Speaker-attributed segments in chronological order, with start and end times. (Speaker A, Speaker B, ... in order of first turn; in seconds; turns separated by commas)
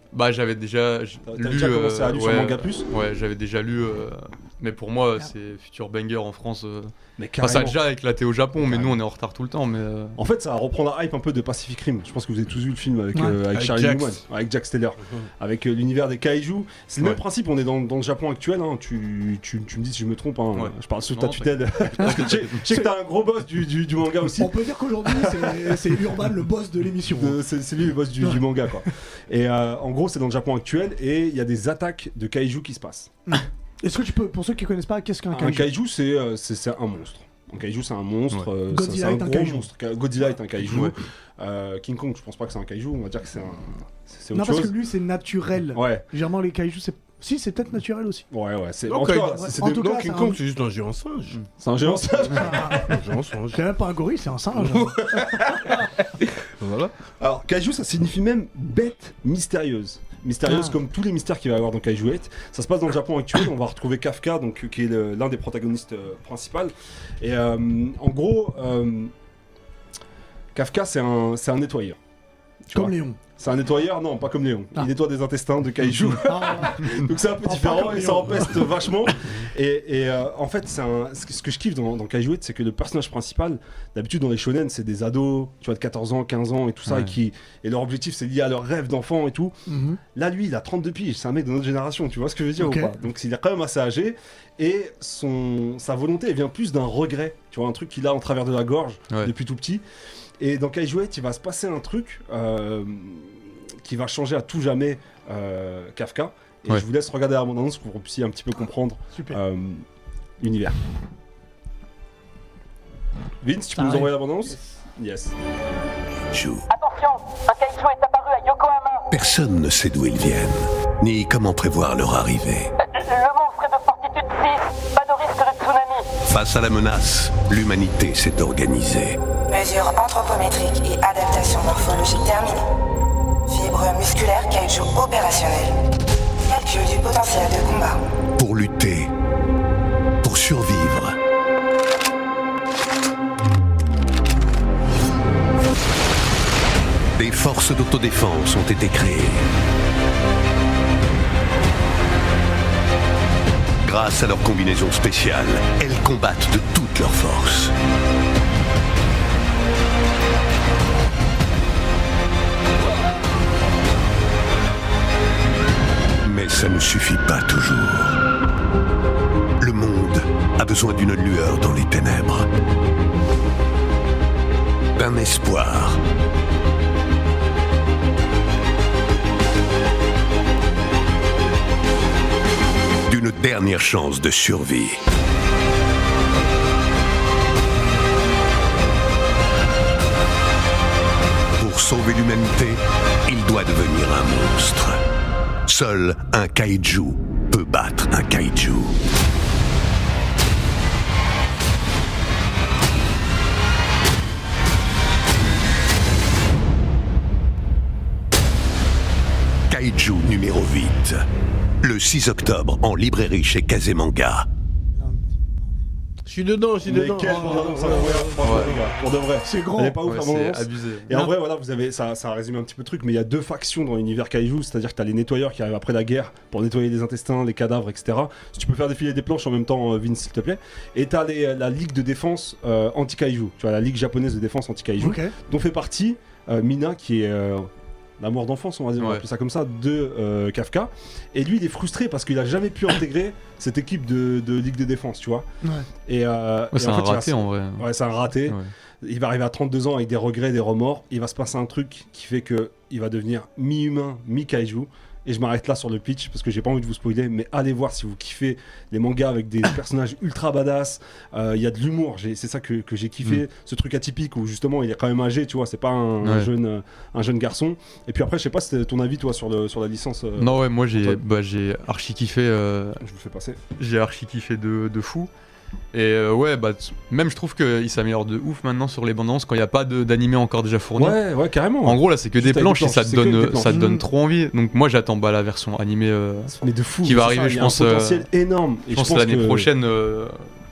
Speaker A: 0.1-10.2, Speaker B: 1.3-2.9, Speaker B: 7.2-7.8, Speaker B: 8.6-9.0, Speaker B: 10.2-25.9, Speaker C: 13.5-14.2, Speaker A: 20.6-22.6, Speaker D: 22.0-22.9, Speaker D: 24.4-27.4, Speaker B: 27.1-33.1, Speaker D: 33.3-35.7, Speaker B: 35.3-44.8, Speaker D: 38.7-39.7, Speaker D: 44.3-48.2, Speaker B: 45.7-46.0, Speaker B: 48.3-50.2, Speaker C: 48.9-51.4, Speaker D: 49.4-50.4, Speaker B: 51.6-53.0, Speaker D: 51.8-53.0, Speaker C: 52.8-53.6, Speaker D: 53.5-55.8, Speaker C: 54.6-55.2, Speaker C: 56.5-56.9, Speaker B: 57.2-69.1, Speaker D: 60.5-60.7, Speaker B: 70.5-72.0, Speaker B: 72.7-89.6, Speaker D: 72.7-73.2, Speaker D: 76.3-78.7, Speaker A: 86.9-87.1, Speaker D: 89.7-90.0, Speaker B: 90.1-99.8, Speaker D: 92.6-92.9, Speaker B: 100.4-109.8, Speaker D: 109.1-109.4, Speaker B: 110.4-110.8, Speaker B: 113.4-115.4, Speaker D: 113.8-114.1, Speaker E: 116.3-116.6, Speaker F: 116.7-119.1, Speaker E: 119.1-122.7, Speaker F: 122.9-126.1, Speaker E: 126.3-129.2, Speaker G: 129.5-132.6, Speaker G: 133.5-135.7, Speaker G: 136.5-138.0, Speaker E: 138.4-139.1, Speaker E: 140.2-141.2, Speaker E: 147.2-149.5, Speaker E: 153.8-157.8, Speaker E: 166.2-168.2, Speaker E: 169.6-172.5, Speaker E: 175.0-176.0, Speaker E: 183.1-185.0, Speaker E: 191.6-195.0, Speaker E: 195.7-199.0, Speaker E: 209.7-211.2, Speaker E: 211.8-214.5, Speaker D: 215.0-215.3, Speaker C: 216.3-218.9, Speaker B: 216.9-245.5, Speaker D: 217.3-217.7, Speaker A: 218.4-218.8, Speaker D: 219.5-220.0, Speaker A: 220.0-221.1, Speaker D: 235.0-235.3, Speaker D: 245.6-245.9, Speaker B: 246.1-271.2, Speaker A: 246.7-247.9, Speaker A: 248.4-248.7, Speaker A: 266.2-266.5, Speaker A: 270.4-273.0, Speaker B: 273.0-273.6, Speaker A: 273.8-275.3, Speaker A: 275.9-281.2, Speaker B: 281.0-283.8, Speaker A: 281.8-288.3, Speaker D: 283.7-284.0, Speaker B: 286.5-289.7, Speaker A: 288.9-290.5